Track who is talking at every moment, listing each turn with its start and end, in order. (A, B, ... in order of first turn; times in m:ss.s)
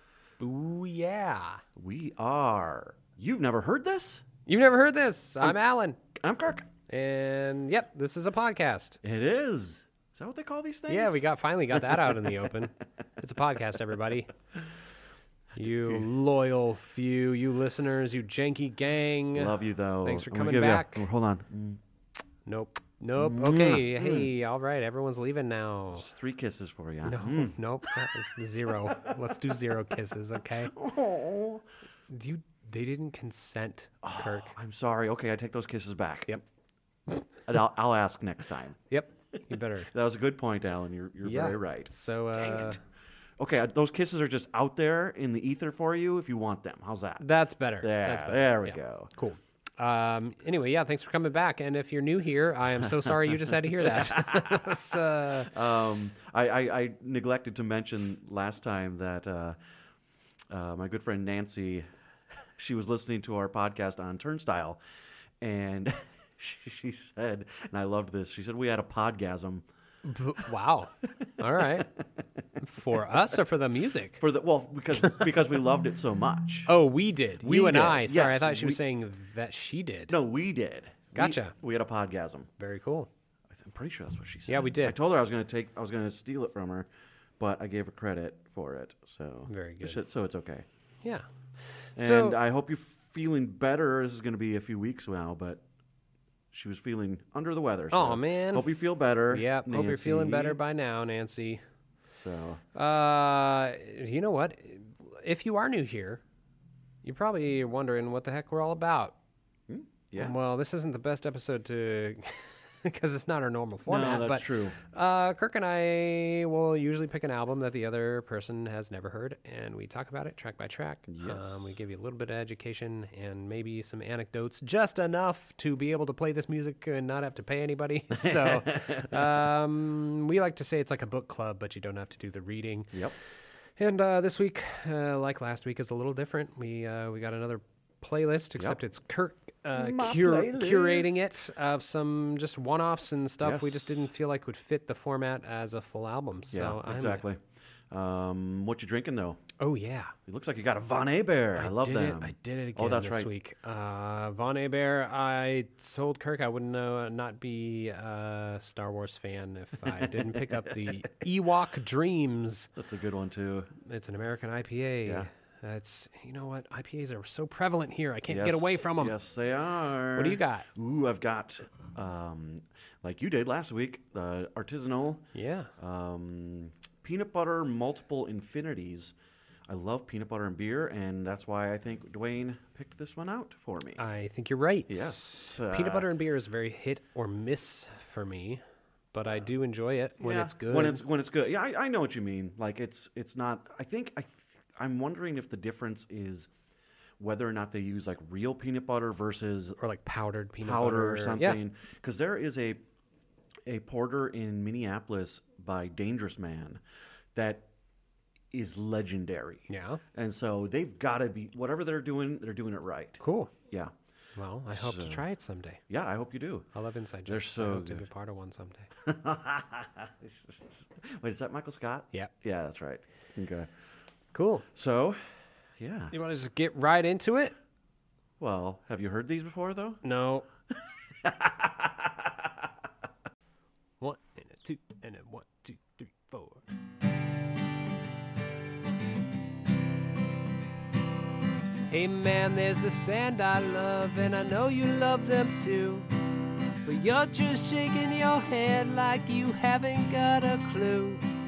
0:00.4-0:01.6 A
0:01.8-0:04.3 B
0:04.5-0:06.0 A
0:06.1-0:06.7 B
0:06.9-0:09.0 A
0:09.0-0:12.4 B
0:10.9-0:14.3 A
0:15.5-0:16.1 B
0:15.6-0:21.0 A
0:19.3-0:21.8 B
0:22.4-0:26.1 A
0:23.2-0:24.3 B
0:26.0-0:27.6 B
0:27.0-0:30.7 A
0:28.9-0:29.1 B
0:30.7-0:31.6 B
0:32.1-0:34.5 A
0:34.0-0:36.4 B
0:37.5-0:38.8 B
0:38.9-0:39.9 A
0:39.9-0:42.8 B
0:41.2-0:42.8 A
0:43.4-0:47.2 B
0:47.2-0:55.5 A
0:47.8-0:49.1 B
0:53.0-0:54.9 B
0:55.5-0:59.6 B
1:00.5-1:01.8 B
1:02.6-1:04.8 B
1:05.4-1:09.6 B
1:10.0-1:11.9 A
1:12.6-1:14.2 A
1:14.2-1:16.8 B
1:16.7-1:20.1 A
1:17.4-1:18.8 B
1:20.1-1:22.5 B
1:21.1-1:21.5 A
1:22.6-1:23.1 A
1:23.5-1:30.6 B
1:24.5-1:25.0 A
1:29.5-1:30.0 A
1:31.0-1:32.4 A
1:32.0-1:35.6 B
1:36.5-1:40.6 B
1:37.9-1:38.7 A
1:39.3-1:41.6 A
1:42.1-1:42.6 B
1:42.7-1:46.2 A
1:47.0-1:49.1 A
1:49.7-1:50.3 B
1:50.2-2:12.9 A
1:53.8-1:54.8 B
2:01.1-2:01.7 B
2:08.1-2:09.4 B
2:13.8-2:27.2 A
2:19.7-2:21.1 B
2:23.4-2:24.1 B
2:26.5-2:29.4 B
2:29.6-2:30.1 A
2:30.3-2:33.3 B
2:31.6-2:42.7 A
2:39.8-2:41.1 B
2:42.8-2:43.7 B
2:43.8-2:49.1 A
2:48.3-2:55.2 B
2:50.2-2:50.7 A
2:55.3-2:55.7 A
2:55.8-2:59.1 B
2:59.7-3:04.0 B
3:04.0-3:08.6 A
3:04.9-3:06.1 B
3:09.1-3:11.0 A
3:10.2-3:16.5 B
3:17.2-3:19.8 B
3:19.8-3:21.6 A
3:20.6-3:22.8 B
3:23.7-3:26.8 B
3:27.3-3:27.6 B
3:28.5-3:33.9 B
3:29.7-3:30.0 A
3:33.2-3:33.5 A
3:34.4-3:35.8 A
3:34.7-3:35.2 B
3:35.9-3:36.7 B
3:36.7-3:38.9 A
3:37.3-3:38.0 B
3:39.0-3:43.7 B
3:44.3-3:44.6 A
3:44.7-3:45.2 B
3:45.8-3:46.1 B
3:46.1-3:47.5 A
3:48.4-3:50.0 B
3:50.0-3:50.5 A
3:51.2-3:52.5 B
3:54.0-3:56.6 A
4:01.9-4:06.1 A
4:06.8-4:11.2 A